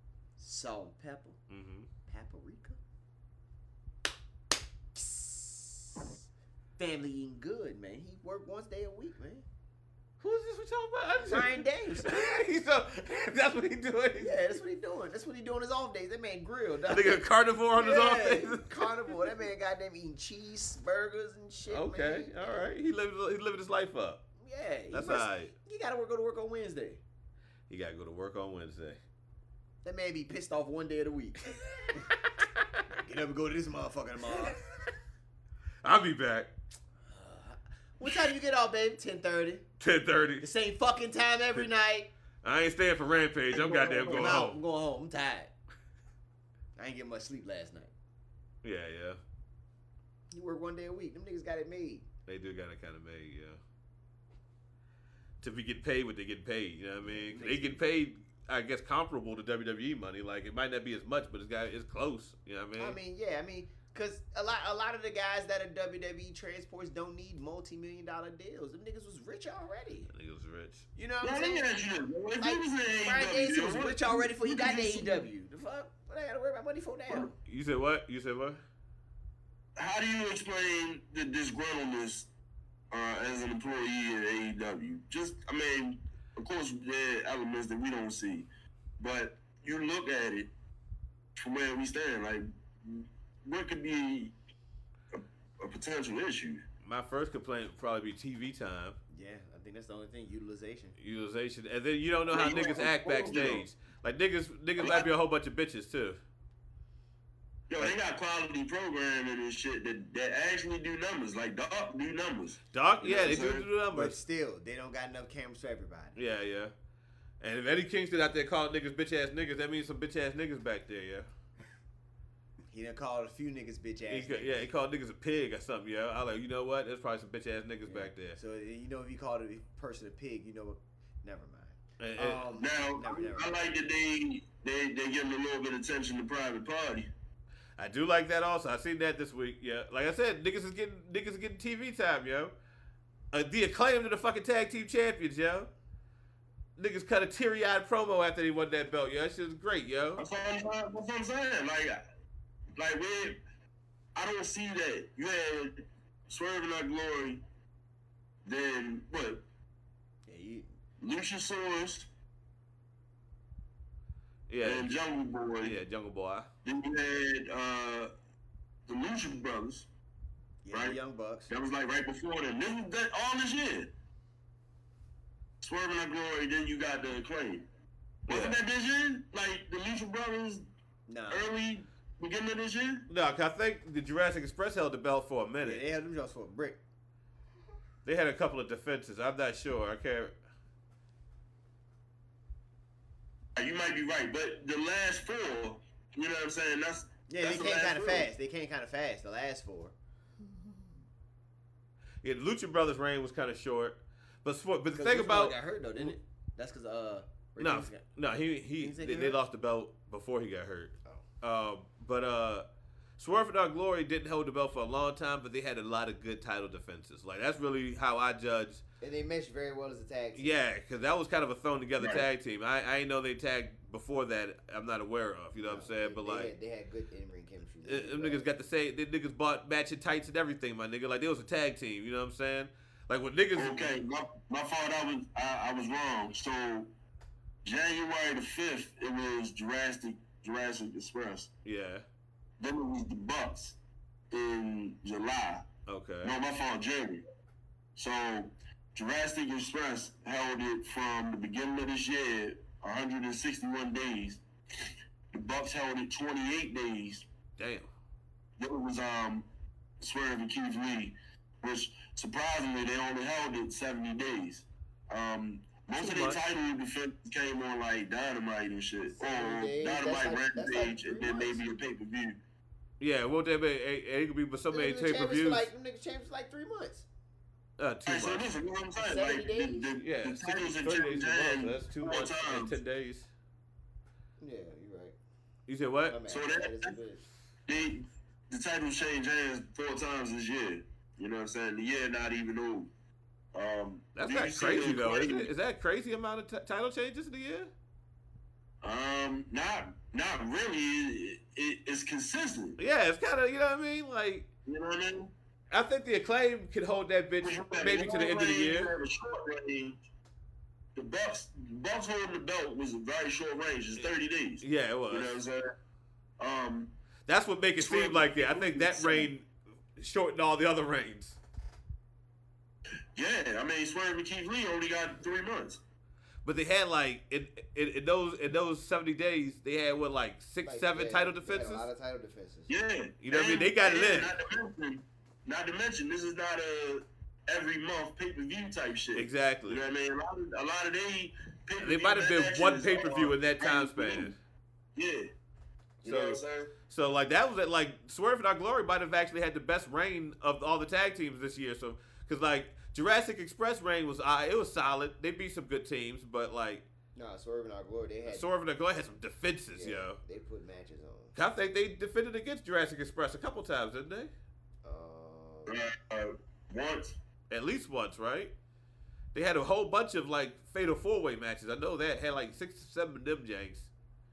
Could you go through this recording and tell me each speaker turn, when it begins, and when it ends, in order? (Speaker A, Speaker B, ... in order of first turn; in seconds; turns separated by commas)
Speaker A: 0.4-1.4, Speaker B: 1.5-1.9, Speaker A: 2.1-2.8, Speaker A: 4.9-6.2, Speaker A: 6.8-9.5, Speaker B: 10.2-14.4, Speaker A: 11.3-12.4, Speaker A: 14.2-17.2, Speaker B: 16.9-19.1, Speaker A: 17.7-22.7, Speaker B: 21.7-24.2, Speaker A: 24.4-27.0, Speaker B: 24.9-25.5, Speaker B: 27.7-29.0, Speaker A: 29.8-31.4, Speaker A: 32.9-34.6, Speaker B: 35.8-36.5, Speaker A: 37.1-39.7, Speaker B: 39.8-40.5, Speaker A: 40.4-42.1, Speaker B: 42.4-44.6, Speaker C: 43.5-44.4, Speaker A: 44.1-45.5, Speaker A: 46.8-47.9, Speaker B: 48.6-49.2, Speaker A: 50.3-52.1, Speaker B: 52.3-53.6, Speaker B: 55.4-63.0, Speaker A: 57.0-57.9, Speaker A: 62.8-70.1, Speaker B: 70.1-70.9, Speaker A: 71.0-71.7, Speaker C: 71.2-75.3, Speaker A: 72.4-77.4, Speaker B: 77.4-78.6, Speaker C: 79.8-82.3, Speaker C: 82.9-88.5, Speaker C: 89.0-90.5, Speaker C: 91.4-94.3, Speaker C: 95.1-96.6, Speaker B: 96.8-99.0, Speaker A: 99.1-101.0, Speaker B: 101.0-106.2, Speaker C: 102.3-103.6, Speaker C: 104.8-105.1, Speaker C: 107.7-113.7, Speaker B: 112.7-114.2, Speaker A: 113.9-116.2, Speaker B: 116.2-116.7, Speaker B: 117.4-121.3, Speaker A: 122.7-124.7, Speaker B: 124.1-128.4, Speaker A: 127.9-133.7, Speaker B: 132.0-132.5, Speaker C: 132.5-137.1, Speaker B: 137.8-142.5, Speaker B: 143.3-145.7, Speaker B: 146.8-150.2, Speaker C: 150.2-152.0, Speaker C: 152.8-153.4, Speaker C: 154.2-157.4, Speaker C: 158.4-159.4, Speaker A: 160.3-160.7, Speaker C: 161.0-162.1, Speaker B: 164.5-164.9, Speaker C: 164.6-165.8, Speaker B: 165.6-166.5, Speaker C: 166.7-168.1, Speaker C: 168.9-169.9, Speaker A: 170.7-171.5, Speaker C: 171.5-173.9, Speaker C: 175.6-177.7, Speaker B: 178.3-178.6, Speaker C: 178.3-180.6, Speaker A: 181.1-181.5, Speaker C: 181.3-183.1, Speaker B: 183.1-185.8, Speaker A: 185.6-186.8, Speaker B: 188.1-190.3, Speaker C: 193.6-198.3, Speaker A: 197.3-199.9, Speaker B: 202.2-206.2, Speaker A: 204.9-208.1, Speaker B: 207.6-212.7, Speaker A: 208.8-209.4, Speaker B: 213.2-218.8, Speaker A: 219.0-220.6, Speaker B: 220.3-226.5, Speaker C: 222.0-222.2, Speaker A: 225.6-228.5, Speaker B: 227.8-234.0, Speaker C: 233.6-236.9, Speaker C: 237.6-241.5, Speaker B: 241.7-242.1, Speaker C: 242.6-243.8, Speaker C: 244.3-245.7, Speaker B: 245.9-246.3, Speaker C: 246.2-247.2, Speaker C: 248.0-254.4, Speaker C: 255.3-257.3, Speaker B: 257.6-257.9, Speaker C: 258.6-259.5, Speaker C: 260.0-272.4, Speaker B: 266.0-266.4, Speaker A: 269.2-271.6, Speaker B: 273.0-275.7, Speaker A: 274.7-277.1, Speaker B: 277.8-278.5, Speaker C: 278.1-282.8, Speaker A: 279.0-280.0, Speaker B: 280.0-283.3, Speaker A: 284.4-285.2, Speaker B: 285.7-286.2, Speaker A: 286.1-287.2, Speaker C: 286.3-286.9, Speaker C: 287.7-292.9, Speaker C: 293.5-295.5, Speaker B: 294.1-297.7, Speaker C: 298.8-302.8, Speaker B: 302.8-304.5, Speaker C: 304.7-305.3, Speaker B: 305.7-308.9, Speaker C: 307.4-310.0, Speaker C: 311.0-315.7, Speaker B: 314.6-315.4, Speaker C: 316.4-316.9, Speaker B: 317.3-321.4, Speaker C: 317.8-319.3, Speaker C: 323.1-325.8, Speaker B: 326.4-331.9, Speaker A: 330.6-332.7, Speaker C: 332.7-344.4, Speaker B: 333.2-334.3, Speaker B: 339.2-339.8, Speaker B: 341.8-344.4, Speaker C: 345.0-345.3, Speaker B: 346.0-356.9, Speaker C: 346.0-346.7, Speaker A: 357.1-358.5, Speaker B: 358.3-360.2, Speaker A: 359.7-361.4, Speaker B: 361.4-364.3, Speaker A: 364.8-365.9, Speaker C: 365.7-367.2, Speaker B: 367.5-368.5, Speaker B: 369.3-373.9